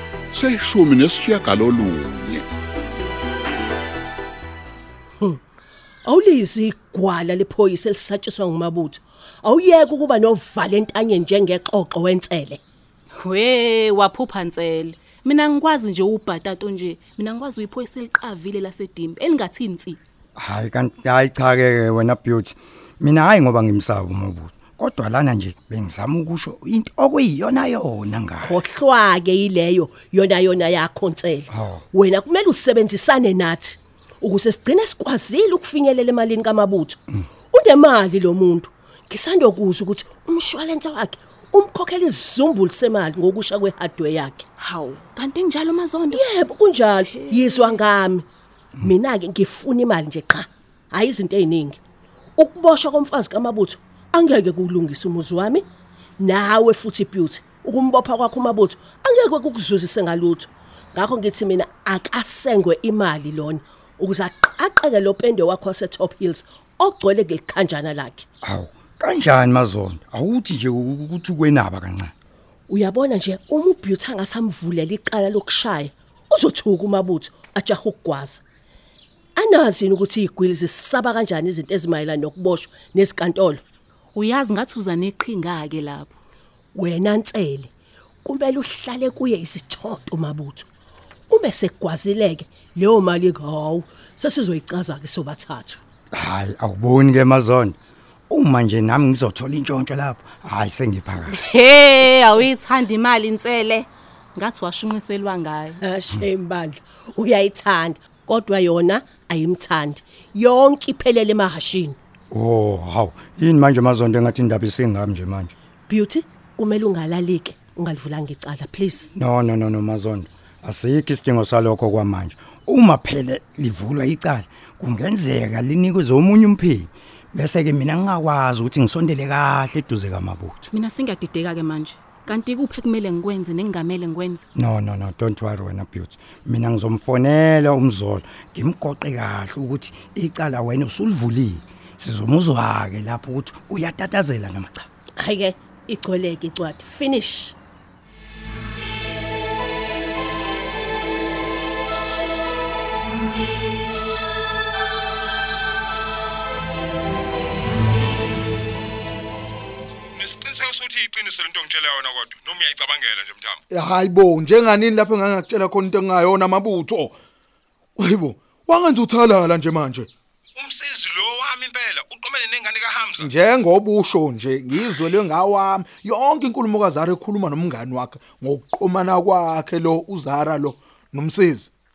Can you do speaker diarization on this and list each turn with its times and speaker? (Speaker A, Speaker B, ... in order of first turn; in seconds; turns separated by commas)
Speaker A: 0.3-2.5, Speaker B: 6.1-12.6, Speaker C: 13.2-20.0, Speaker D: 20.4-28.6, Speaker B: 28.4-44.5, Speaker D: 31.5-31.9, Speaker C: 44.6-46.3, Speaker B: 46.1-48.3, Speaker C: 47.0-47.9, Speaker B: 48.8-51.8, Speaker B: 52.4-55.7, Speaker B: 56.2-68.2, Speaker D: 68.4-72.1, Speaker B: 72.7-78.4, Speaker B: 79.4-83.6, Speaker C: 84.1-86.1, Speaker B: 86.8-87.7, Speaker B: 88.2-90.7, Speaker B: 91.3-95.8, Speaker D: 96.1-97.8, Speaker D: 98.3-101.4, Speaker C: 101.3-105.8, Speaker B: 105.8-112.0, Speaker D: 112.3-115.5, Speaker B: 115.9-119.1, Speaker D: 119.2-130.6, Speaker C: 130.7-134.5, Speaker D: 134.5-144.9, Speaker B: 145.2-147.6, Speaker E: 160.1-163.6, Speaker F: 163.7-167.2, Speaker F: 168.0-170.1, Speaker E: 170.6-173.3, Speaker F: 173.2-181.7